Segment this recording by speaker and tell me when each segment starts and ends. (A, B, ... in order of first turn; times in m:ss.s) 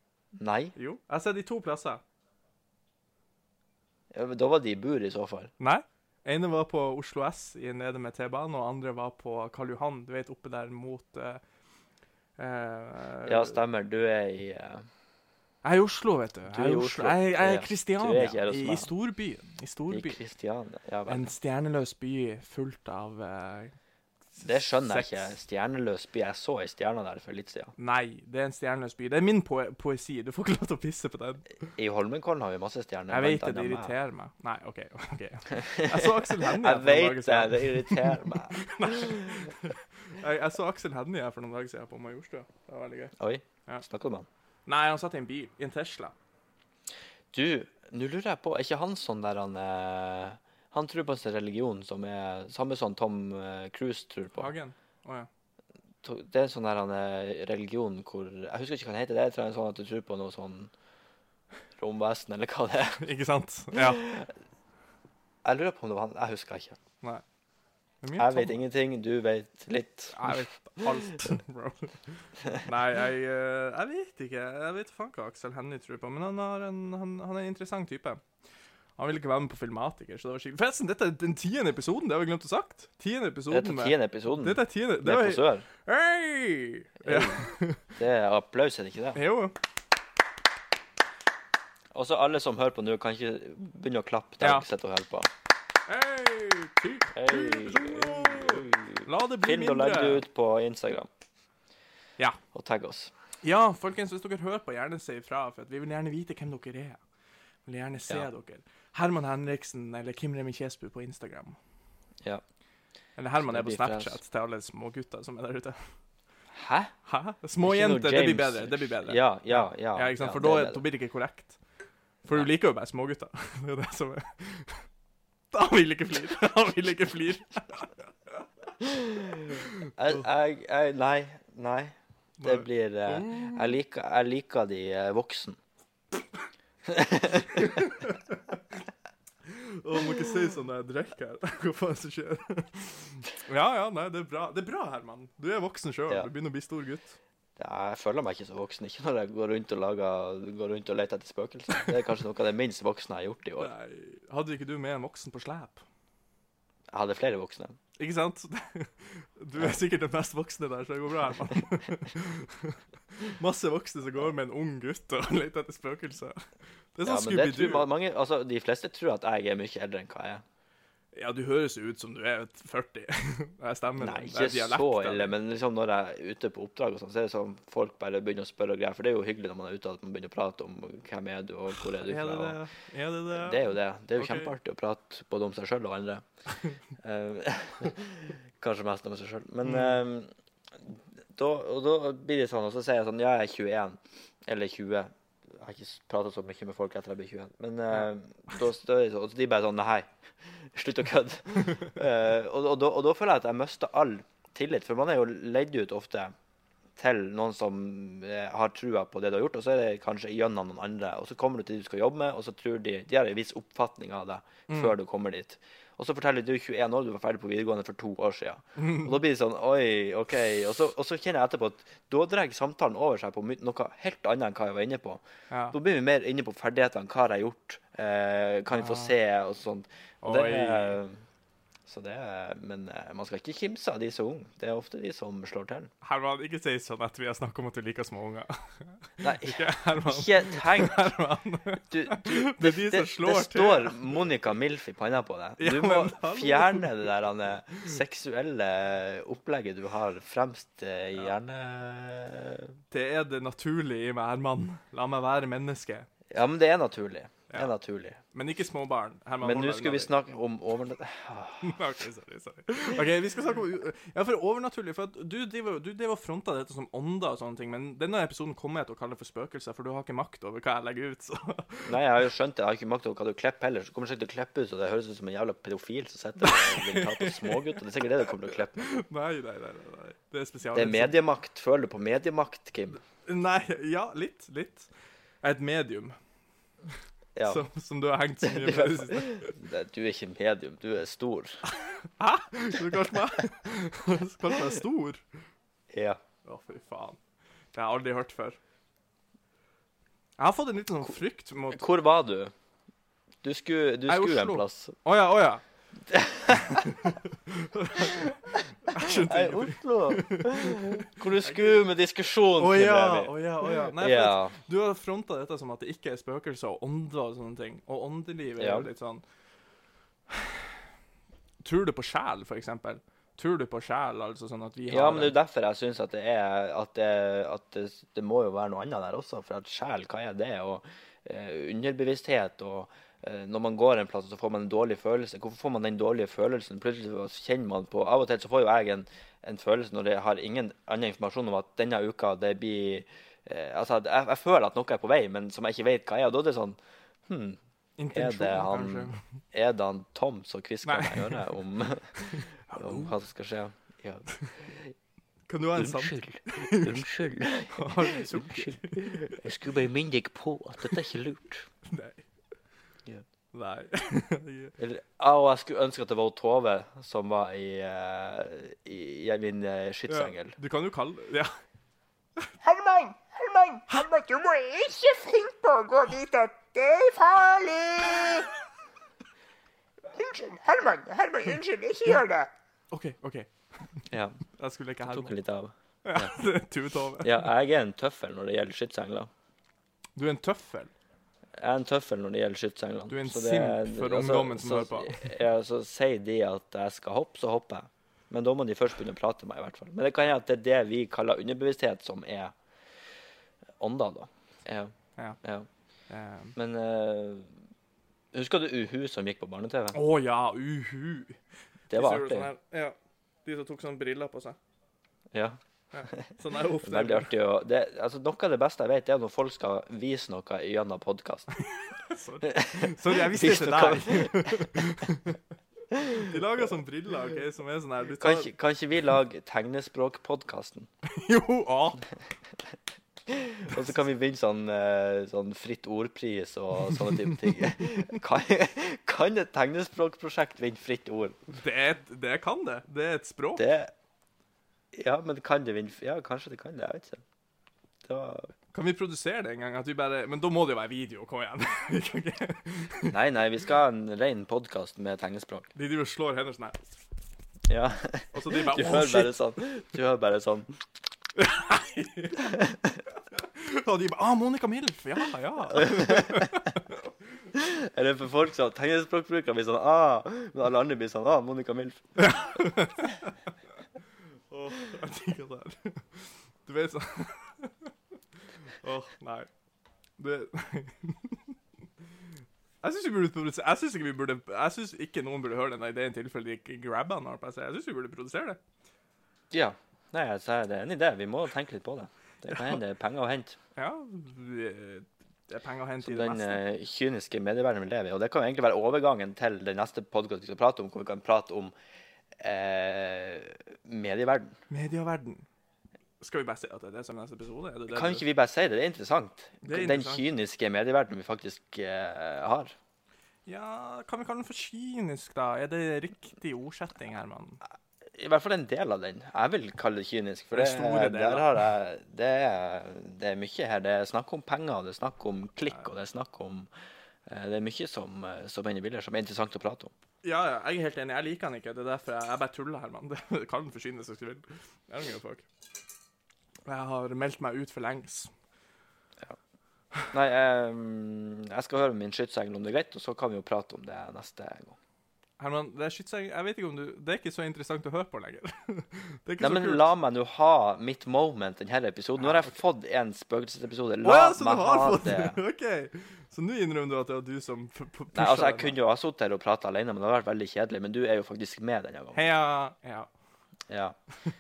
0:00.4-0:00.7 A
0:00.8-0:02.0 B
0:04.1-0:05.5 A
0:05.6-0:11.4 B
0:12.4-0:13.6 B
0:13.2-0:14.8 A
0:15.6-0:20.2 B
0:16.5-0:18.9 A
0:19.9-0:21.3 A
0:21.1-0:23.8 B
0:24.4-0:25.3 B
0:24.4-0:27.7 A
0:27.8-0:31.5 B
0:31.8-0:34.0 A
0:33.1-0:43.1 B
0:35.5-0:39.1 A
0:43.2-0:44.3 A
0:44.7-0:46.2 B
0:47.3-0:54.5 A
0:54.4-0:55.3 B
0:56.0-1:00.7 A
1:01.8-1:03.0 A
1:03.0-1:04.0 B
1:03.8-1:04.3 A
1:05.4-1:06.8 A
1:08.0-1:08.6 B
1:08.2-1:10.4 A
1:10.1-1:18.2 B
1:19.0-1:27.9 B
1:23.5-1:25.7 A
1:27.0-1:29.2 A
1:29.2-1:29.6 B
1:31.9-1:35.3 A
1:34.4-1:34.7 B
1:35.9-1:40.2 B
1:37.1-1:41.1 A
1:42.5-1:43.1 A
1:43.4-1:47.0 B
1:47.6-1:51.6 B
1:53.2-1:55.9 B
1:53.4-1:54.2 A
1:56.5-1:56.9 A
1:57.1-2:01.6 B
1:57.6-2:00.8 A
2:02.2-2:04.9 B
2:05.5-2:08.4 B
2:09.5-2:10.2 B
2:10.0-2:15.6 A
2:12.4-2:13.8 B
2:16.9-2:17.8 A
2:17.5-2:18.8 B
2:19.4-2:27.2 B
2:27.6-2:33.7 A
2:33.6-2:35.8 B
2:36.9-2:37.8 A
2:38.0-2:46.4 B
2:46.9-2:47.9 B
2:47.0-2:50.4 A
2:51.1-2:55.3 B
2:54.0-3:02.6 A
3:01.8-3:04.5 B
3:03.3-3:06.2 A
3:07.0-3:10.3 A
3:09.6-3:10.0 B
3:10.8-3:26.3 A
3:27.0-3:51.2 A
3:34.7-3:35.0 B
3:38.8-3:39.2 B
3:48.7-3:49.1 B
3:50.2-3:51.0 B
3:51.9-3:55.9 A
3:56.0-4:04.2 B
3:59.2-4:01.0 A
4:01.9-4:12.7 A
4:05.6-4:07.1 B
4:12.9-4:16.1 B
4:16.3-4:18.2 A
4:18.3-4:20.1 B
4:19.4-4:21.9 A
4:21.6-4:32.0 B
4:31.8-4:39.0 A
4:36.4-4:37.8 B
4:38.5-4:41.2 B
4:40.7-4:43.0 A
4:43.2-4:44.9 B
4:45.4-4:46.2 B
4:47.4-4:47.6 A
4:47.5-4:49.5 B
4:48.4-4:51.6 A
4:51.7-4:55.2 B
4:55.9-4:56.2 A
4:56.4-4:57.2 B
4:57.7-4:58.6 B
5:00.4-5:01.8 B
5:01.7-5:02.5 A
5:03.4-5:05.0 A
5:04.1-5:05.6 B
5:06.1-5:07.0 A
5:06.5-5:11.8 B
5:08.9-5:14.6 A
5:12.6-5:19.2 B
5:18.6-5:18.9 A
5:20.3-5:20.7 B
5:21.6-5:25.4 B
5:24.9-5:47.6 A
5:48.0-5:49.2 B
5:48.1-5:54.9 A
5:50.8-5:51.4 B
5:52.2-5:53.1 B
5:55.5-5:57.1 B
5:55.8-6:01.7 A
5:57.7-5:59.4 B
6:01.8-6:02.2 B
6:03.5-6:04.7 B
6:04.8-6:10.6 A
6:10.1-6:11.5 B
6:12.6-6:18.5 C
6:20.1-6:22.5 C
6:22.9-6:24.0 B
6:24.1-6:24.4 A
6:24.6-6:25.3 B
6:25.1-6:26.3 A
6:26.0-6:27.5 B
6:27.2-6:29.3 A
6:30.2-6:30.9 B
6:31.6-6:42.5 A
6:33.1-6:35.3 B
6:43.8-6:45.7 A
6:46.1-6:46.6 B
6:46.6-6:47.5 A
6:48.3-6:50.0 A
6:49.9-6:54.6 B
6:51.9-6:52.5 A
6:55.3-6:56.3 A
6:55.9-6:57.3 B
6:56.8-7:01.6 A
7:01.7-7:05.4 B
7:02.5-7:05.0 A
7:06.1-7:08.5 B
7:08.2-7:10.9 A
7:11.1-7:12.0 B
7:13.3-7:21.4 A
7:21.6-7:23.6 B
7:23.6-7:23.9 A
7:24.9-7:27.2 A
7:28.1-7:28.5 A
7:28.7-7:33.2 B
7:33.1-7:35.7 A
7:35.8-7:36.9 B
7:37.7-7:40.7 A
7:38.3-7:39.4 B
7:41.4-7:42.6 B
7:43.3-7:47.1 B
7:45.8-7:46.6 A
7:47.5-7:52.0 A
7:52.2-7:53.3 B
7:54.5-7:57.9 B
7:58.7-7:59.5 B
8:00.2-8:01.6 B
8:02.8-8:08.6 B
8:09.5-8:13.6 A
8:12.5-8:12.8 B
8:13.8-8:16.6 B
8:16.0-8:21.7 A
8:22.4-8:24.6 A
8:24.7-8:25.5 B
8:26.2-8:28.2 B
8:27.9-8:32.8 A
8:29.6-8:30.3 B
8:33.5-8:37.6 B
8:38.2-8:46.7 A
8:40.5-8:41.6 B
8:47.3-8:49.9 A
8:50.2-8:55.4 B
8:56.6-8:58.3 B
9:00.1-9:04.8 A
9:05.4-9:09.9 B
9:09.4-9:15.4 A
9:12.2-9:12.6 B
9:14.0-9:18.8 B
9:18.1-9:22.2 A
9:22.2-9:23.1 B
9:23.7-9:24.0 A